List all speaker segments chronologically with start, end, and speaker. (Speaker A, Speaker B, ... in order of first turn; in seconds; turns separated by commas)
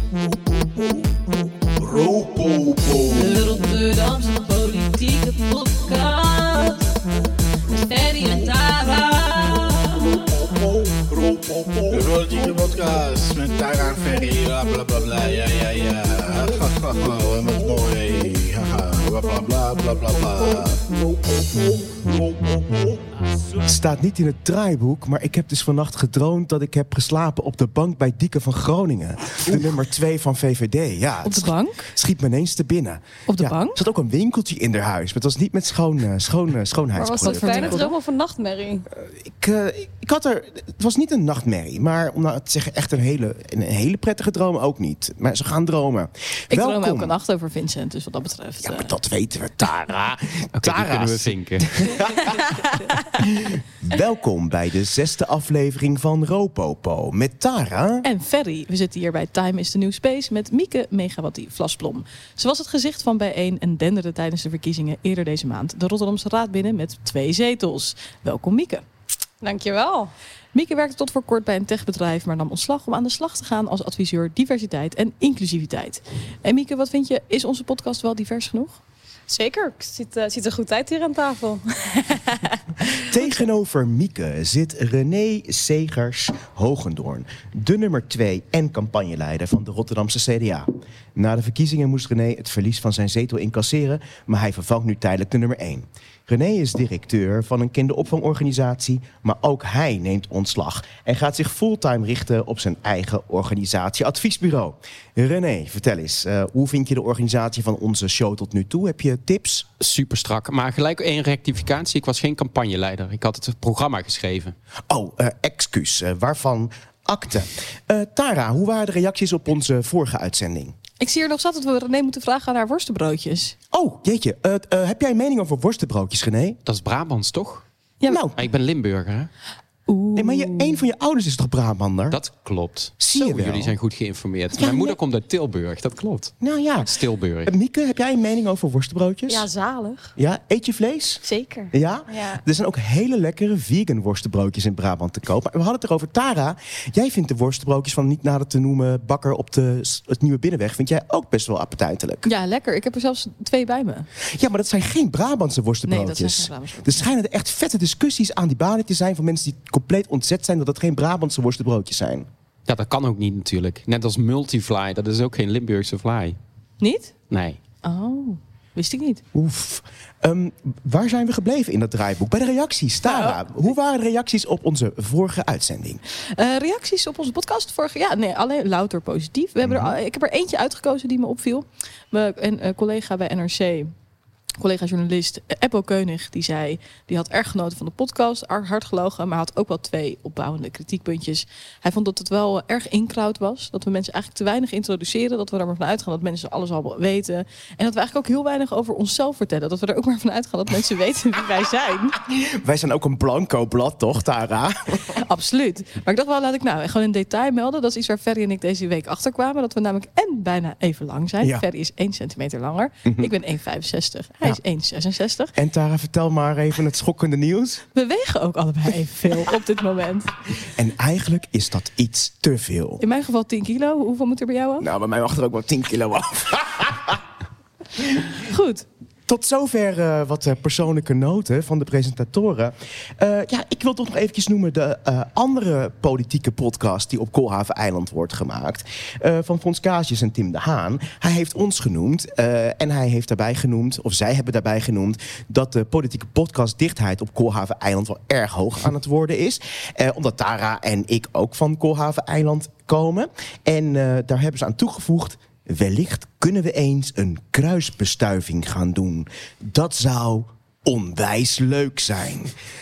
Speaker A: 1.8-3.3, Speaker B: 3.1-6.9, Speaker B: 7.7-10.4, Speaker A: 10.6-23.0, Speaker C: 23.6-37.8, Speaker D: 31.2-31.9, Speaker D: 33.3-33.8, Speaker E: 37.0-38.9, Speaker D: 37.2-37.9, Speaker C: 39.0-47.1, Speaker D: 46.5-48.9, Speaker C: 48.6-58.0, Speaker F: 50.6-52.0, Speaker D: 58.0-68.8, Speaker E: 69.4-70.1, Speaker D: 70.5-78.8, Speaker E: 79.3-83.0, Speaker C: 83.0-109.7, Speaker F: 109.8-114.5, Speaker C: 114.9-120.8, Speaker D: 121.0-123.5, Speaker C: 123.7-126.6, Speaker F: 126.7-127.7, Speaker C: 128.1-128.4, Speaker F: 128.4-129.3, Speaker D: 129.9-130.8, Speaker C: 130.2-132.2, Speaker F: 132.1-137.5, Speaker C: 133.0-133.7, Speaker C: 134.5-135.0, Speaker C: 136.4-139.5, Speaker E: 139.3-140.1, Speaker C: 140.2-152.3, Speaker E: 142.1-142.4, Speaker D: 152.2-154.1, Speaker C: 154.3-162.3, Speaker D: 155.9-157.1, Speaker F: 162.7-166.4, Speaker D: 166.8-167.1, Speaker F: 167.3-167.6, Speaker D: 167.8-169.2, Speaker C: 169.3-176.0, Speaker D: 173.0-173.4, Speaker D: 176.3-183.9, Speaker C: 179.6-179.9, Speaker D: 184.6-202.2, Speaker C: 202.2-205.1, Speaker D: 205.1-215.5, Speaker C: 213.1-213.3, Speaker C: 215.6-217.8, Speaker D: 217.9-220.3, Speaker C: 220.7-223.0, Speaker D: 223.0-224.9, Speaker C: 224.8-227.2, Speaker C: 228.0-228.3, Speaker D: 228.5-228.8, Speaker C: 229.3-262.5